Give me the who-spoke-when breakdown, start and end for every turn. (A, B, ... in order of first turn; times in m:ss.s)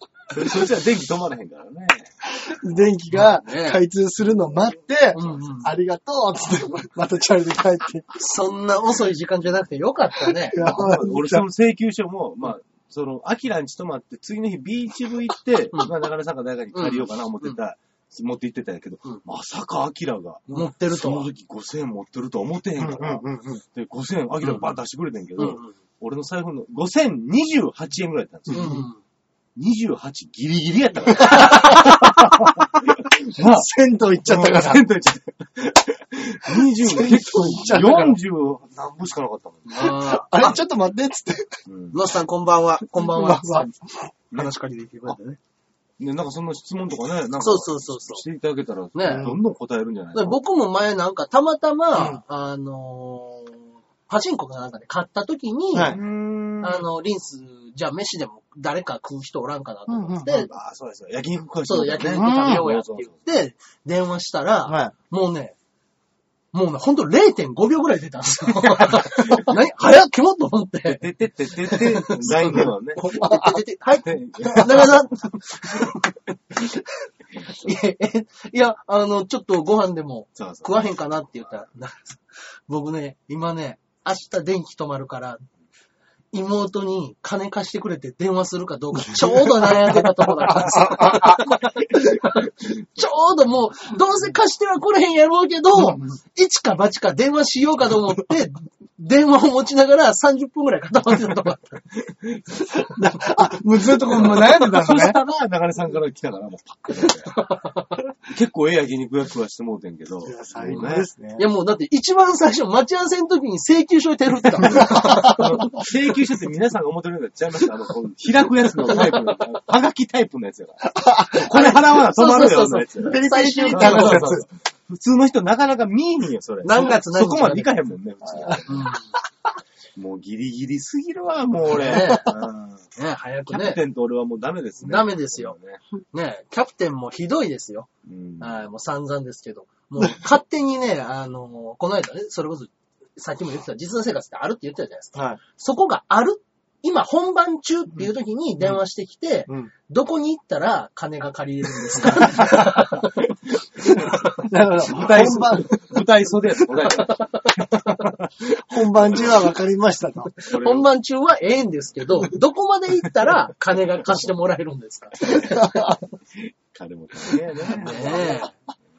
0:00.3-0:02.1 A
0:02.3-0:08.1 B
0:03.1-0:03.8 C
0:05.1-0:05.7 C
0:08.1-0:10.7 C
0:10.5-0:11.5 B
0:10.6-0:28.8 A
0:16.7-0:17.6 C
0:20.5-0:21.3 C
0:22.8-0:23.6 B
0:24.4-0:24.8 C
0:25.4-0:25.7 C
0:28.5-0:29.0 C
0:29.6-0:33.7 A
0:31.2-0:31.8 B
0:31.3-0:31.8 C
0:33.4-0:34.8 B
0:34.2-0:39.9 A
0:36.6-0:38.2 B
0:39.7-0:40.6 C
0:39.8-0:41.6 B
0:41.7-0:42.0 A
0:41.9-0:43.7 C
0:42.9-0:44.1 B
0:44.3-0:45.4 C
0:46.0-0:50.4 A
0:47.4-0:48.2 C
0:49.0-0:49.3 C
0:49.1-0:49.4 B
0:50.1-0:56.0 C
0:51.9-0:52.2 B
0:55.7-0:56.0 B
0:55.8-0:56.9 A
0:56.6-1:00.5 C
0:59.9-1:00.3 B
1:00.3-1:03.2 A
1:01.7-1:05.6 C
1:02.1-1:02.6 B
1:04.7-1:04.9 B
1:06.5-1:11.0 C
1:10.8-1:13.0 A
1:11.6-1:16.6 C
1:13.0-1:13.6 B
1:14.0-1:15.0 A
1:17.4-1:25.4 C
1:20.4-1:21.0 A
1:26.3-1:41.8 C
1:29.2-1:31.7 B
1:42.2-1:42.9 A
1:42.9-1:45.2 B
1:44.2-1:47.4 A
1:47.3-1:47.8 C
1:48.3-1:51.1 A
1:50.2-1:51.4 B
1:51.4-1:55.9 C
1:54.6-2:09.0 A
1:54.6-1:55.6 B
1:58.9-1:59.2 C
2:00.8-2:02.0 B
2:01.6-2:04.3 C
2:03.0-2:04.5 B
2:06.6-2:07.8 C
2:08.7-2:09.1 C
2:10.0-2:12.8 A
2:11.7-2:12.4 C
2:11.9-2:12.2 B
2:13.0-2:13.8 C
2:13.5-2:15.8 A
2:14.8-2:15.6 C
2:16.1-2:17.9 C
2:18.0-2:18.6 A
2:18.4-2:33.2 C
2:25.1-2:25.4 B
2:33.8-2:34.4 C
2:34.0-2:36.0 B
2:34.8-2:39.5 A
2:36.9-2:38.1 C
2:38.7-2:40.3 B
2:40.4-2:46.0 C
2:40.4-2:40.9 A
2:45.3-2:46.0 B
2:46.7-2:48.5 A
2:47.7-2:48.5 C